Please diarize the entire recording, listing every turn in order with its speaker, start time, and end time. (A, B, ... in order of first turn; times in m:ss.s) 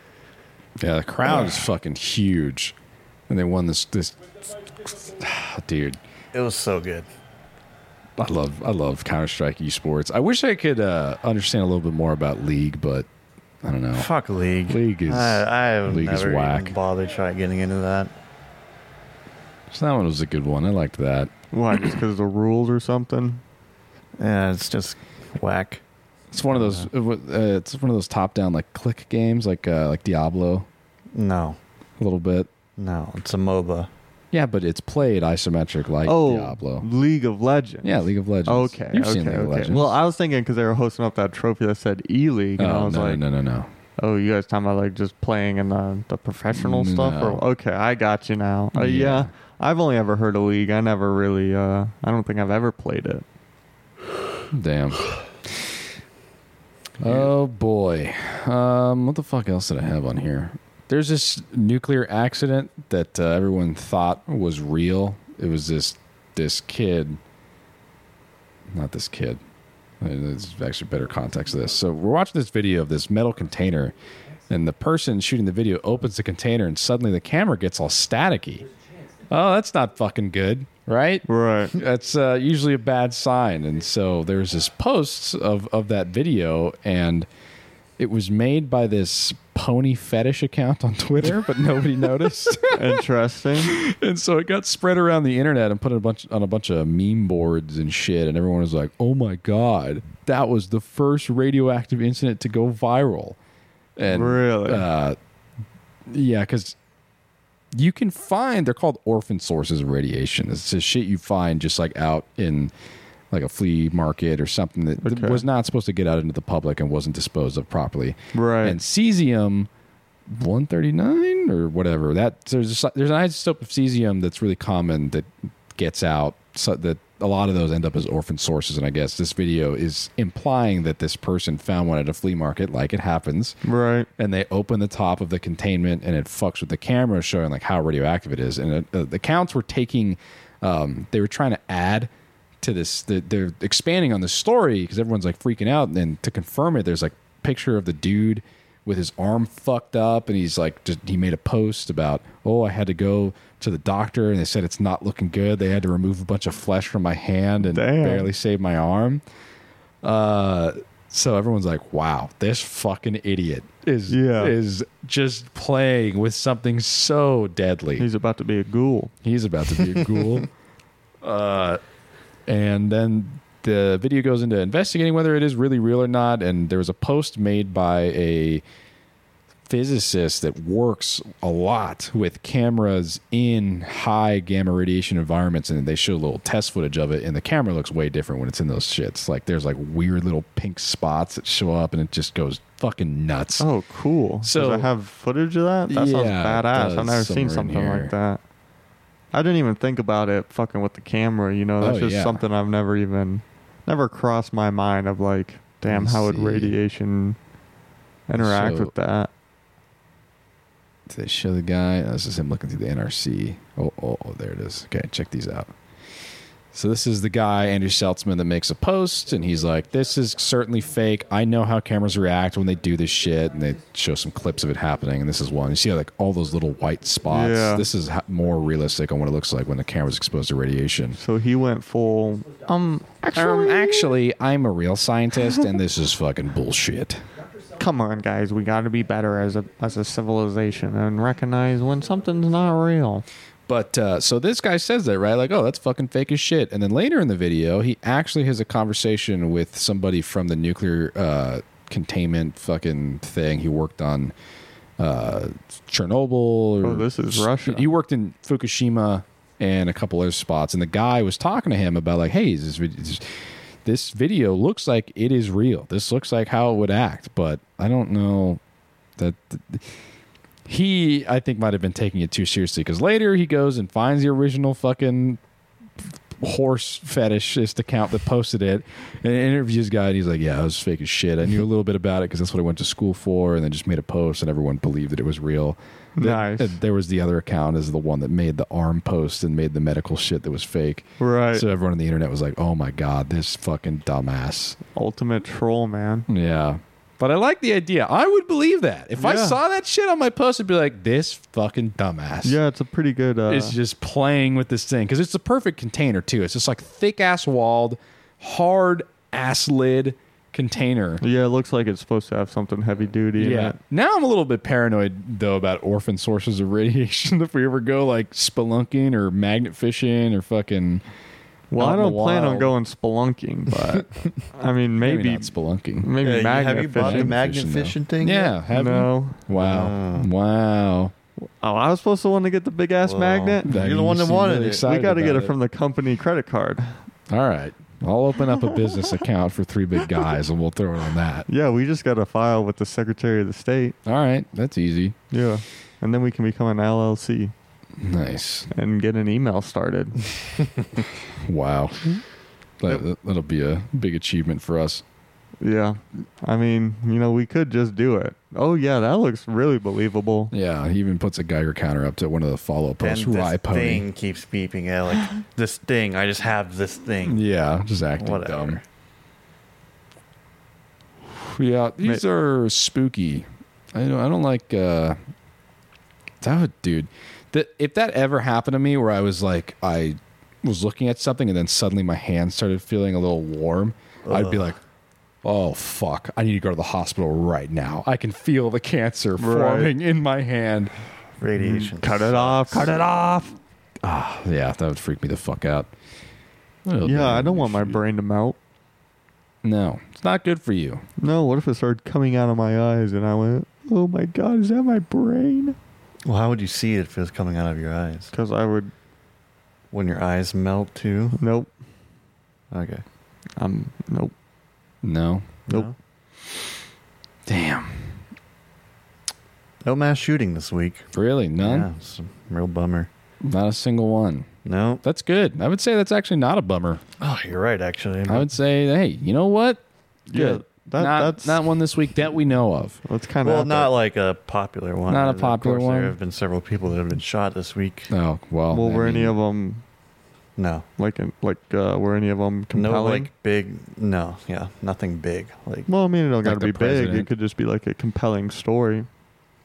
0:00.8-0:02.8 A
0:01.2-0:01.7 B
0:03.3-0:06.0 A
0:06.3-0:07.1 B
0:08.2-0:13.1 A
0:13.6-0:14.1 A
0:13.9-0:18.1 B
0:14.7-0:16.8 A
0:19.7-0:21.3 A
0:21.5-0:23.4 C
0:24.2-0:25.8 B
0:26.3-0:30.7 A
0:26.5-0:26.9 B
0:31.1-0:31.6 B
0:32.0-0:32.5 A
0:32.8-0:33.9 B
0:34.3-0:36.9 A
0:36.0-0:43.2 C
0:37.8-0:39.9 A
0:42.6-0:43.7 A
0:44.0-0:53.2 C
0:46.5-0:47.4 A
0:48.8-0:49.3 A
0:54.5-0:55.8 A
0:57.0-1:07.2 A
1:08.7-1:09.4 A
1:10.0-1:13.9 A
1:14.5-1:18.6 A
1:19.3-1:27.3 A
1:21.3-1:21.7 C
1:28.0-1:33.0 A
1:32.7-1:33.8 C
1:33.6-1:43.4 A
1:44.0-1:45.2 A
1:44.1-1:44.9 C
1:46.1-1:46.8 A
1:47.8-1:52.7 A
1:53.3-1:59.7 A
1:55.0-1:55.4 C
1:58.3-1:58.8 C
2:00.3-2:13.6 A
2:13.6-2:14.1 C
2:14.2-2:22.1 A
2:22.6-2:39.2 A
2:37.6-2:38.3 C
2:40.0-2:48.1 A
2:44.1-2:44.6 C
2:48.0-2:49.1 C
2:49.2-2:50.5 A
2:51.2-2:51.8 A
2:52.5-2:58.6 A
2:59.7-3:13.7 A
3:13.6-3:18.4 C
3:14.4-3:14.9 A
3:15.9-3:18.1 A
3:19.3-3:27.4 C
3:21.8-3:22.4 A
3:25.9-3:26.8 A
3:28.3-3:29.3 C
3:28.4-3:28.9 A
3:31.1-3:35.7 A
3:36.7-3:51.2 A
3:47.3-3:47.9 C
3:51.2-3:54.1 C
3:53.2-3:57.2 A
3:57.8-4:03.2 C
4:03.7-4:14.3 A
4:15.0-4:23.3 A
4:16.8-4:17.9 C
4:23.8-4:28.6 A
4:29.2-4:29.9 A
4:30.7-4:35.4 A
4:36.4-4:54.8 A
4:46.2-4:46.8 C
4:51.2-4:51.7 C
4:55.0-4:56.3 C
4:56.3-5:02.6 A
4:59.2-4:59.6 C
5:02.4-5:03.8 C
5:03.5-5:11.2 A
5:11.2-5:13.8 C
5:13.4-5:21.0 A
5:21.7-5:27.4 C
5:21.8-5:22.7 A
5:25.0-5:26.1 A
5:26.2-5:28.6 B
5:27.0-5:31.1 A
5:28.7-5:29.4 C
5:29.6-5:30.3 B
5:31.4-5:33.7 C
5:33.0-5:34.8 B
5:33.6-5:35.5 A
5:34.8-5:37.0 C
5:37.3-5:41.5 A
5:41.5-5:44.0 C
5:44.1-5:45.2 A
5:45.3-5:47.5 C
5:48.0-5:48.7 A
5:48.7-5:50.3 C
5:51.4-5:52.2 A
5:52.8-5:55.0 A
5:55.6-6:00.5 C
6:00.5-6:04.1 A
6:03.0-6:07.4 B
6:07.2-6:08.8 A
6:08.2-6:08.8 B
6:11.4-6:15.2 A
6:16.4-6:24.8 A
6:24.2-6:24.8 B
6:25.4-6:30.9 A
6:29.4-6:29.9 C
6:31.4-6:33.0 B
6:31.6-6:33.6 C
6:34.0-6:35.9 A
6:36.9-6:38.0 A
6:37.0-6:38.6 C
6:39.6-6:41.0 A
6:41.2-6:45.8 C
6:46.3-6:48.3 B
6:48.3-6:48.9 C
6:49.9-6:51.4 B
6:51.4-6:51.7 C
6:52.7-6:53.0 B
6:53.6-6:54.3 C
6:55.0-6:55.5 A
6:55.7-6:55.9 B
6:57.5-6:58.1 A
6:59.8-7:03.1 B
7:01.1-7:01.9 A
7:03.4-7:04.5 A
7:04.6-7:05.0 B
7:05.0-7:07.0 A
7:07.2-7:08.5 B
7:08.3-7:09.8 A
7:10.3-7:11.6 C
7:10.3-7:13.0 A
7:13.0-7:13.9 C
7:13.4-7:18.1 B
7:15.1-7:16.2 A
7:18.1-7:19.3 A
7:18.7-7:19.8 C
7:20.6-7:20.9 B
7:21.0-7:23.3 C
7:22.7-7:25.9 B
7:25.9-7:29.1 C
7:26.4-7:27.3 A